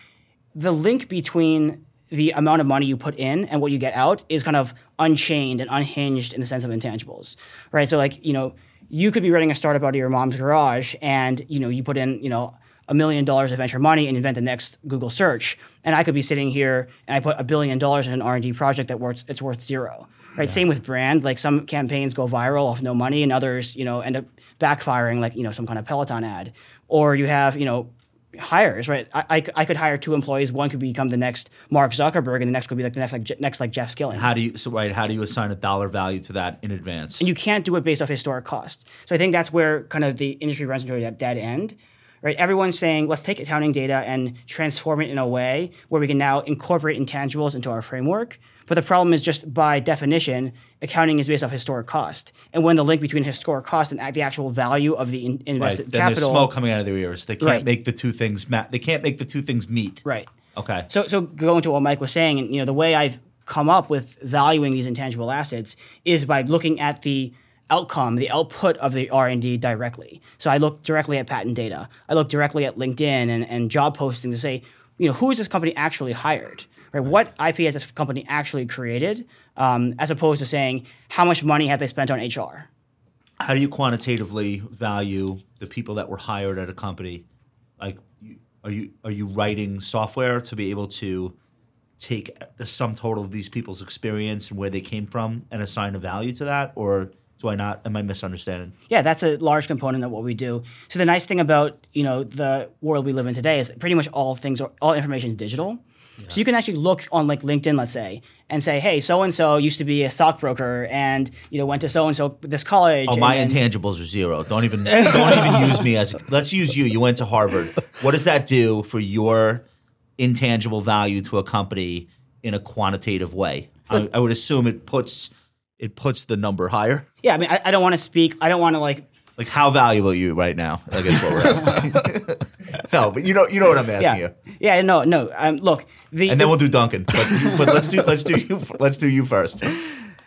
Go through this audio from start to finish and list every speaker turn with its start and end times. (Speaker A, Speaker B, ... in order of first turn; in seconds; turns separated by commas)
Speaker A: 0.6-34.3, Speaker B: 34.1-37.3, Speaker A: 37.2-56.5, Speaker B: 55.6-60.0, Speaker A: 57.4-57.7, Speaker B: 60.5-60.9, Speaker A: 60.9-82.7, Speaker B: 83.4-87.2, Speaker B: 87.8-91.3, Speaker B: 92.0-98.7, Speaker A: 98.9-113.6, Speaker B: 113.1-119.6, Speaker A: 114.9-115.8, Speaker B: 120.2-127.1, Speaker A: 127.2-129.1, Speaker B: 129.4-134.3, Speaker A: 131.5-131.8, Speaker A: 134.0-136.6, Speaker B: 136.3-139.7, Speaker A: 137.3-137.7